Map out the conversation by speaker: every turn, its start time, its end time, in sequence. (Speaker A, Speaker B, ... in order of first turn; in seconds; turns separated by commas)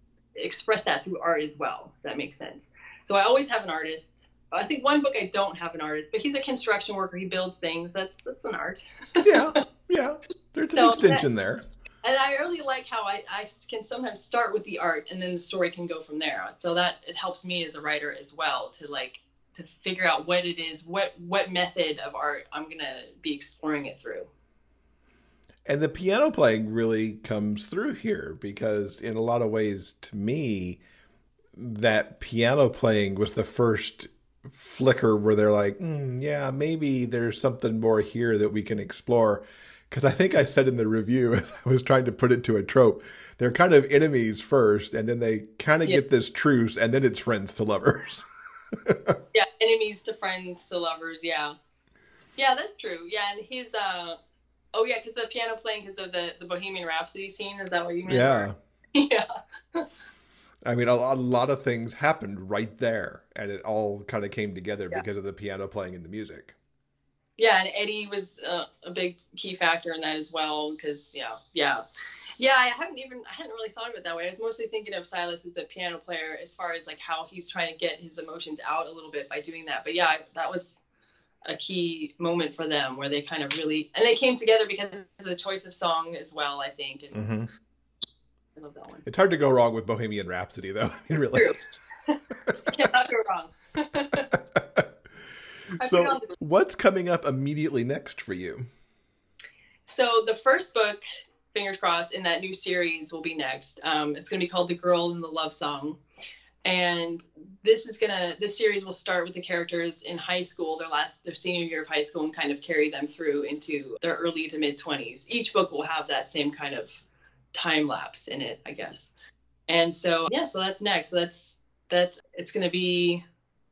Speaker A: 0.4-8.8, Speaker B: 9.2-11.7, Speaker A: 10.8-11.2, Speaker A: 12.0-24.3, Speaker B: 25.7-30.8, Speaker B: 31.6-48.3, Speaker B: 48.9-49.2, Speaker A: 49.3-51.5, Speaker A: 52.4-54.2, Speaker A: 54.7-59.9, Speaker B: 58.1-58.6, Speaker B: 60.7-66.5, Speaker A: 67.4-71.8, Speaker A: 72.4-80.8, Speaker A: 81.5-87.2, Speaker B: 87.1-87.5, Speaker A: 88.6-89.0, Speaker B: 89.1-91.5, Speaker A: 92.1-94.3, Speaker B: 94.6-94.8, Speaker A: 95.8-96.3, Speaker B: 95.8-98.7, Speaker A: 99.9-101.0, Speaker A: 101.5-106.0, Speaker A: 106.6-117.0, Speaker A: 117.5-119.1, Speaker A: 119.7-123.2